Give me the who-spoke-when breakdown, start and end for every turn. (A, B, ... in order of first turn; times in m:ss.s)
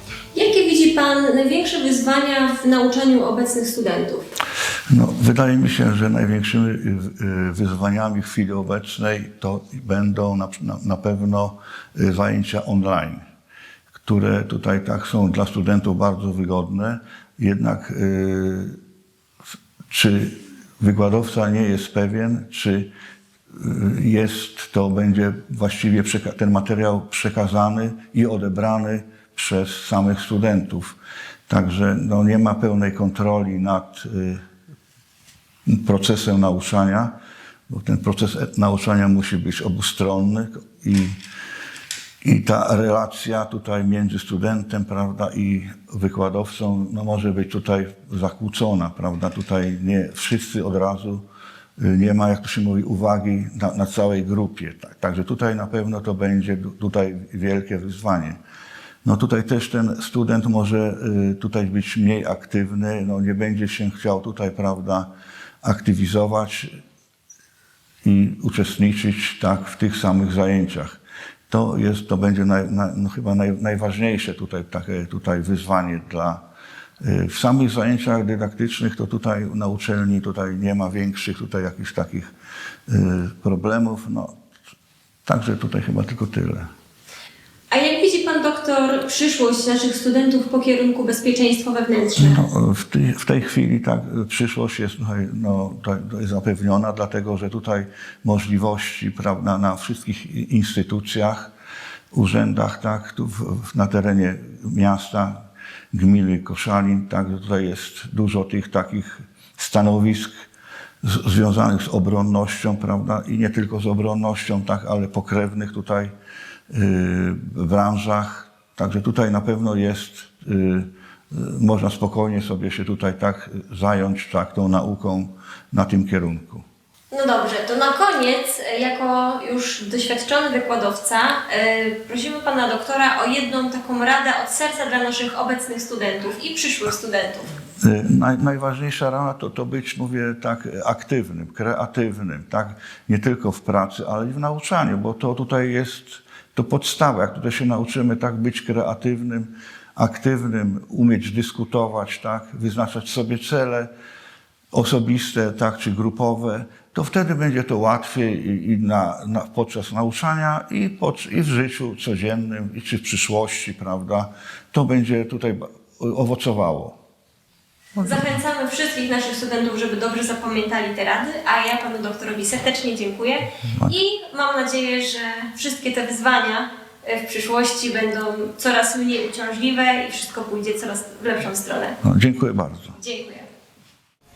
0:00.3-0:04.2 A
0:04.9-0:13.2 B
0:14.0-0:18.8 B
0:19.9-0:22.9 B
0:23.5-0:31.0 B
0:31.5-0:34.4 B
0:35.7-0:37.2 B
0:37.7-0:41.2 B
0:42.2-0:51.2 B
0:51.8-0:58.4 B
0:59.0-1:05.1 B
1:05.6-1:06.8 B
1:08.0-1:16.4 B
1:17.0-1:22.3 B
1:22.9-1:24.4 B
1:25.2-1:26.7 B
1:27.7-1:32.4 A
1:32.2-1:41.5 B
1:42.1-1:50.5 B
1:51.0-1:56.1 B
1:56.7-2:06.6 B
2:07.1-2:17.5 A
2:17.8-2:33.9 B
2:34.7-2:47.0 B
2:48.0-3:02.0 A
3:02.0-3:03.0 B
3:03.0-3:03.5 A